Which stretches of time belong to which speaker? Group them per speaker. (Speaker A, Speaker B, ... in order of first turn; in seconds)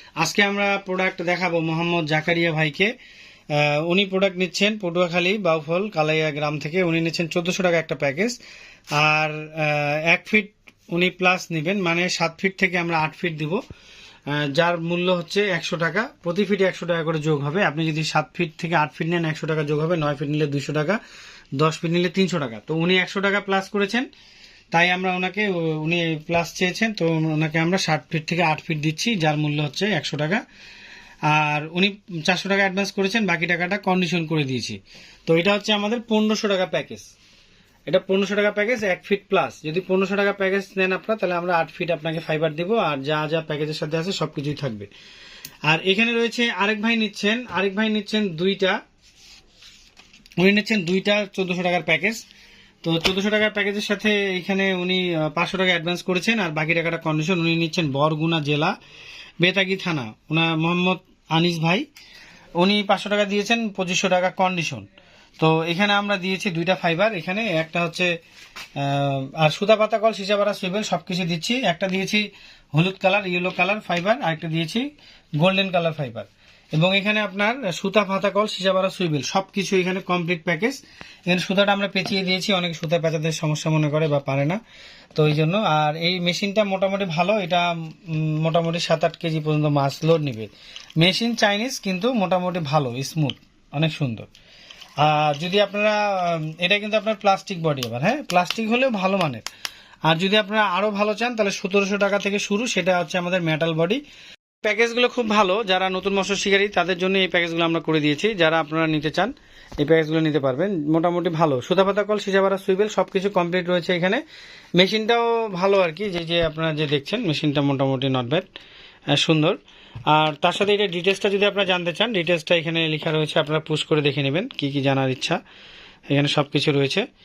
Speaker A: 0.2-2.9, 3.5-8.4, 8.9-13.6, 14.3-21.0, 21.6-24.1, 24.7-30.4, 31.3-37.1, 37.9-44.9, 45.7-48.8, 50.4-52.2, 52.8-58.8, 59.4-61.9, 62.6-64.9, 65.4-68.1, 68.8-74.9, 75.4-84.6, 85.1-94.3, 95.0-99.5, 100.1-104.0, 104.6-114.2, 114.8-118.5, 119.1-119.6, 120.1-125.4, 126.1-127.0